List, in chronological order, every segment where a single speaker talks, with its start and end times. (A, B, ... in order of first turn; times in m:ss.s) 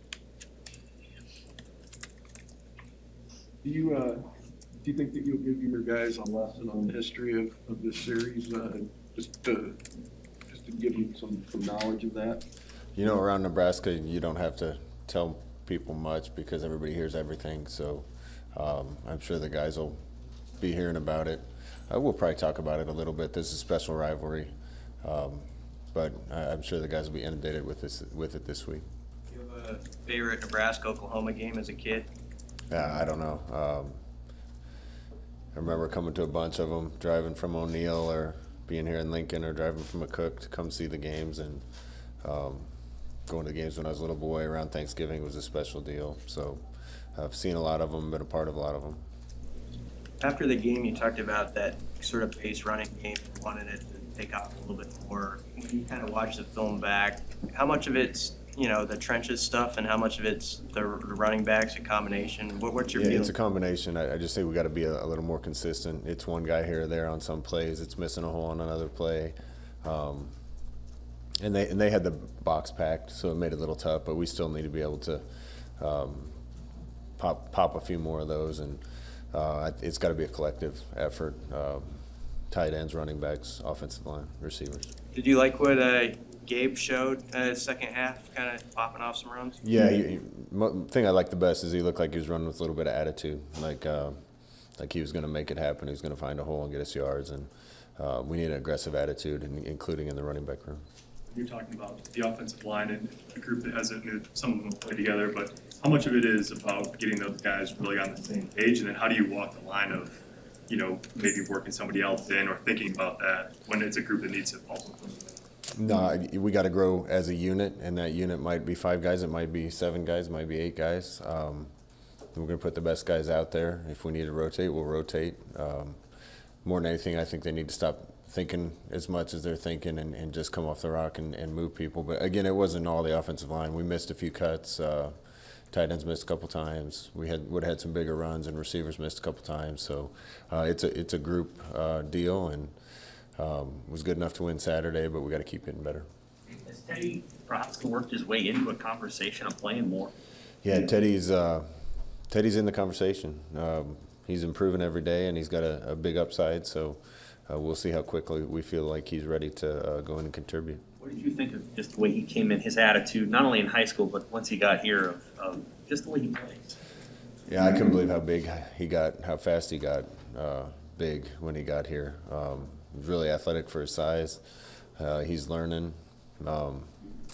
0:03.6-0:04.2 A
0:04.8-0:09.8 A
0:10.5-0:12.4 A
0:13.0-0:20.0 B
0:20.6-0:28.8 B
0:29.3-0:32.1 C
0:32.7-0:34.0 B
0:35.5-0:41.7 B
0:42.2-0:46.6 B
0:47.1-0:49.0 B
0:50.2-1:03.3 C
1:02.9-1:10.4 B
1:11.4-1:16.4 B
1:17.2-1:24.9 B
1:25.1-1:29.6 C
1:29.6-1:40.8 B
1:41.3-1:55.4 D
1:55.8-2:01.7 B
2:02.3-2:06.0 B
2:06.6-2:22.8 B
2:23.4-2:26.1 B
2:26.6-2:30.1 E
2:30.6-2:40.8 B
2:41.0-2:46.8 E
2:47.5-2:57.0 B